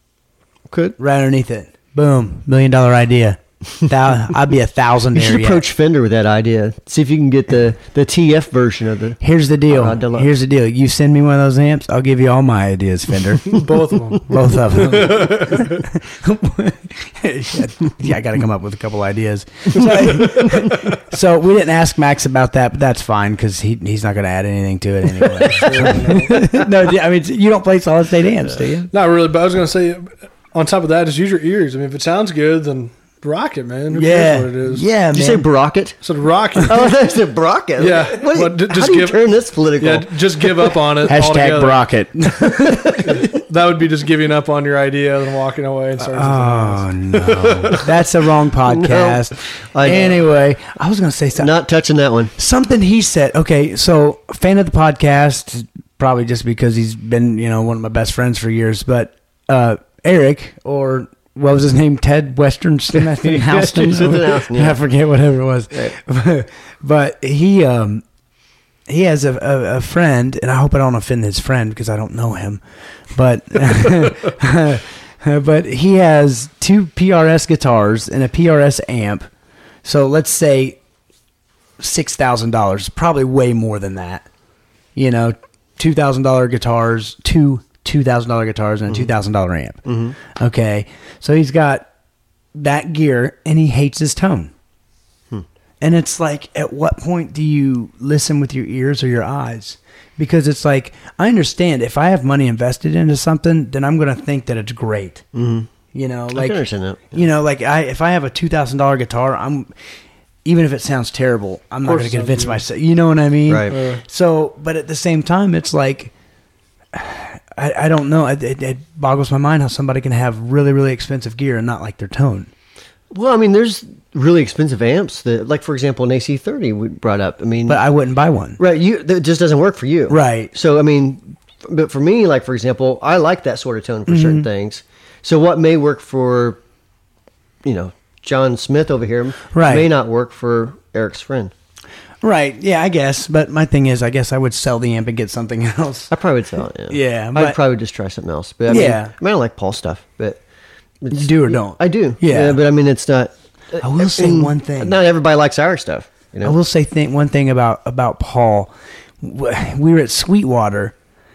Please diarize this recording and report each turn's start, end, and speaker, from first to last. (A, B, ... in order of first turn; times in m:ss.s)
0:00.7-0:01.0 A
0:01.0-0:05.6 B
0:05.1-0:10.3 A
0:09.2-0:13.6 B
0:13.5-0:15.8 C
0:14.3-0:28.9 B
0:19.9-0:20.8 C
0:25.5-0:26.4 C
0:28.9-0:34.8 C
0:33.9-0:35.5 B
0:35.1-0:36.0 A
0:36.0-0:37.0 C
0:36.6-0:40.7 A
0:37.8-0:39.3 C
0:39.8-0:41.9 C
0:41.0-0:43.1 B
0:42.4-0:43.2 A
0:43.0-0:47.9 C
0:46.0-0:51.5 B
0:48.7-0:49.2 A
0:49.7-0:50.2 A
0:51.4-0:52.3 A
0:52.4-1:08.0 B
1:03.1-1:04.8 A
1:08.9-1:12.6 B
1:13.2-1:19.3 B
1:19.8-1:20.8 B
1:21.8-1:24.3 B
1:25.0-1:31.9 B
1:29.9-1:30.2 A
1:32.6-1:34.5 B
1:35.8-1:45.2 B
1:45.3-1:45.7 A
1:45.9-1:49.7 B
1:46.3-1:47.2 A
1:50.4-1:56.1 B
1:51.8-1:52.6 C
1:53.5-1:53.8 A
1:53.7-1:54.0 C
1:56.9-2:02.5 B
2:03.1-2:07.8 A
2:07.7-2:08.6 B
2:08.6-2:16.6 A
2:10.1-2:10.5 B
2:14.1-2:14.5 B
2:17.6-2:21.5 A
2:19.5-2:19.9 B
2:22.2-2:26.1 B
2:26.1-2:30.4 A
2:26.9-2:27.6 B
2:28.7-2:29.1 B
2:31.0-2:36.6 A
2:31.1-2:32.6 B
2:33.8-2:35.0 B
2:36.4-2:38.7 B
2:39.2-2:41.0 B